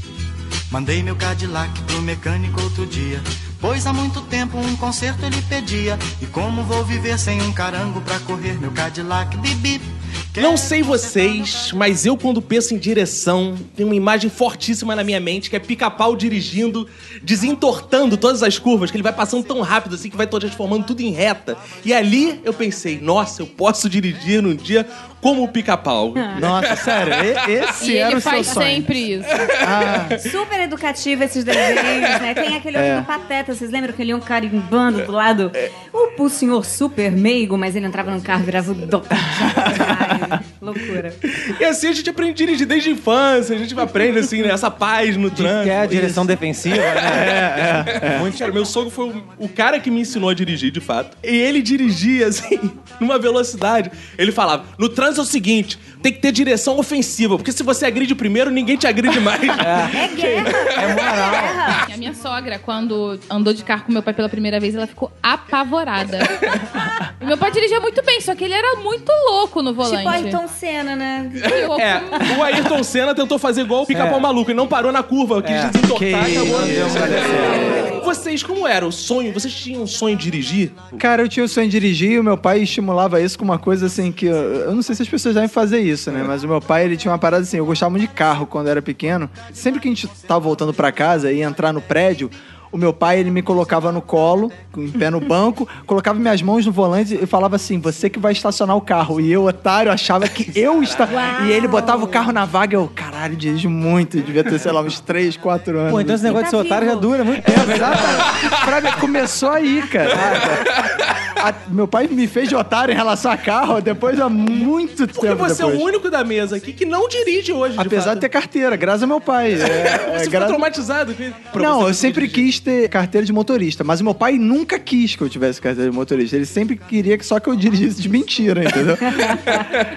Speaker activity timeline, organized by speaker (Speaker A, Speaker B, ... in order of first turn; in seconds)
Speaker A: 0.7-11.0
Speaker B: 10.4-27.7, 29.4-30.1, 41.3-60.7, 71.4-80.8, 110.4-111.0, 115.1-118.2, 119.6-122.5, 129.4-129.8
Speaker C: 26.2-26.4, 30.1-41.2, 59.8-61.8, 69.8-71.7, 101.0-102.3, 106.2-107.1, 129.1-129.4
Speaker D: 26.3-28.9, 29.6-30.2, 32.7-33.0, 47.0-48.2, 75.9-77.8, 80.9-106.4, 107.4-110.8, 111.3-115.9, 117.8-120.7, 121.5-129.6
Speaker E: 27.8-29.4, 61.8-66.6, 67.2-70.4, 71.5-72.3
Speaker F: 45.3-48.5, 59.6-61.6, 73.9-74.3, 75.4-77.9, 105.9-108.2